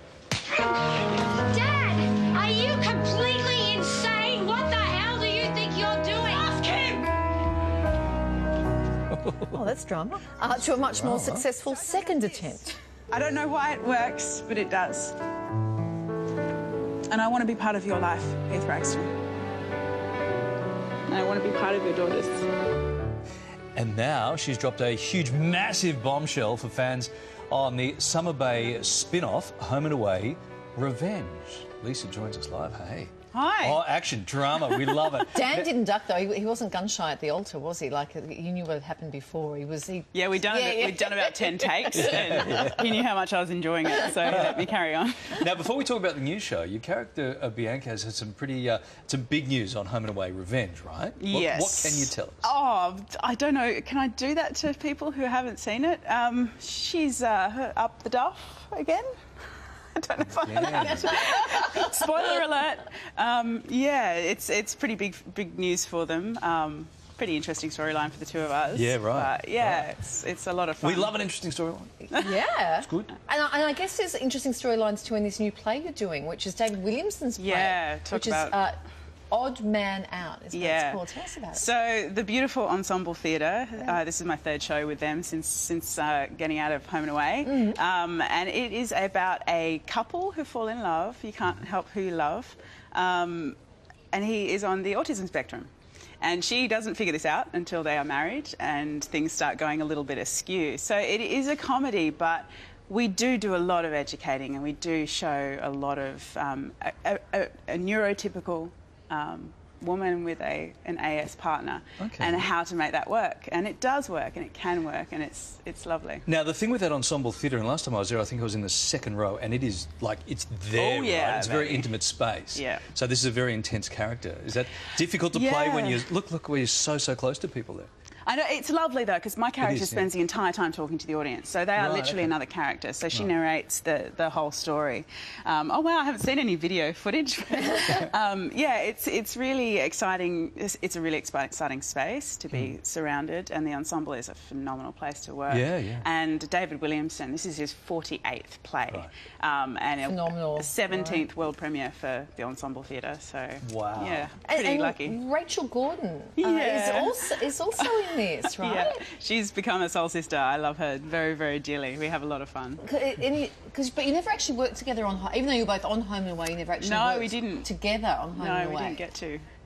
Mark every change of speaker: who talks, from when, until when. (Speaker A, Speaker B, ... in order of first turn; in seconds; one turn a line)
Speaker A: 0.6-7.1
Speaker B: 9.1-9.6
Speaker C: 9.5-12.7
Speaker B: 10.6-11.5
Speaker D: 11.9-12.6
Speaker D: 13.1-15.2
Speaker D: 17.1-19.1
Speaker D: 21.1-22.5
Speaker B: 23.8-35.7
Speaker D: 33.3-33.9
Speaker C: 35.2-42.7
Speaker D: 40.1-45.5
Speaker B: 41.9-43.0
Speaker B: 44.3-44.6
Speaker B: 45.3-52.5
Speaker D: 51.2-59.4
Speaker D: 60.0-71.2
Speaker B: 60.2-61.2
Speaker C: 60.9-61.9
Speaker B: 68.7-69.9
Speaker B: 70.8-72.2
Speaker D: 72.1-72.4
Speaker C: 72.1-78.8
Speaker B: 72.8-73.1
Speaker D: 77.4-78.6
Speaker C: 79.3-81.7
Speaker D: 80.5-81.0
Speaker D: 81.5-93.6
Speaker C: 87.5-87.8
Speaker D: 94.1-95.7
Speaker D: 96.2-116.2
Speaker B: 112.0-112.5
Speaker B: 116.3-127.9
Speaker D: 120.8-121.9
Speaker D: 122.5-122.8
Speaker D: 125.3-126.1
Speaker D: 128.3-155.2
Speaker B: 129.6-130.1
Speaker B: 131.7-132.4
Speaker B: 145.5-146.1
Speaker C: 150.0-151.2
Speaker B: 153.6-154.3
Speaker C: 154.4-159.0
Speaker D: 156.4-162.8
Speaker C: 162.8-169.0
Speaker D: 166.8-167.7
Speaker D: 168.3-169.4